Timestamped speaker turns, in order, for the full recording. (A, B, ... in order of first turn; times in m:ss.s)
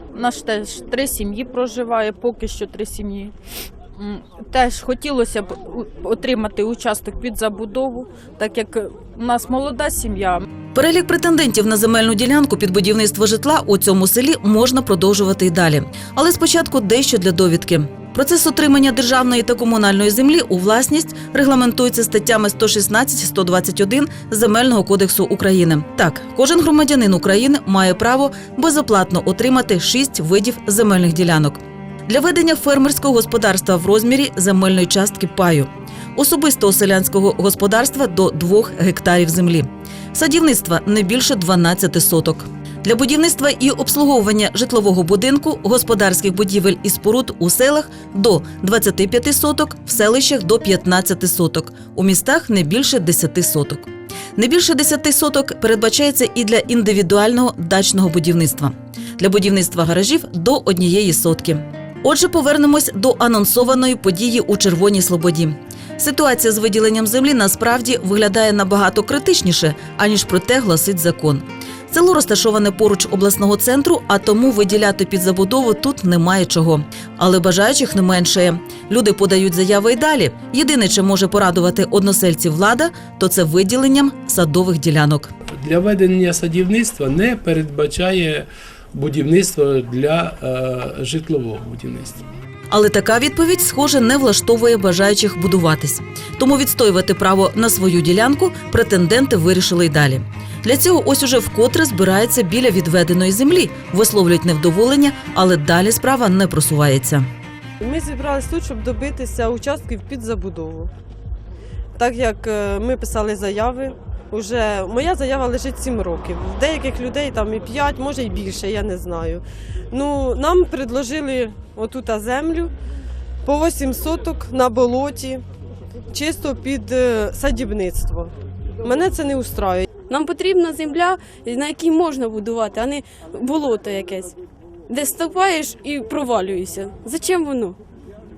0:00.1-0:03.3 A
0:03.9-0:10.4 A
0:10.7-1:25.3 B
1:25.6-1:32.3 C
1:32.7-1:47.2 B
1:47.8-1:50.9 D
1:51.9-2:02.7 D
2:03.4-2:05.4 D
2:06.1-2:09.9 D
2:10.1-2:14.4 E
2:14.9-2:17.8 E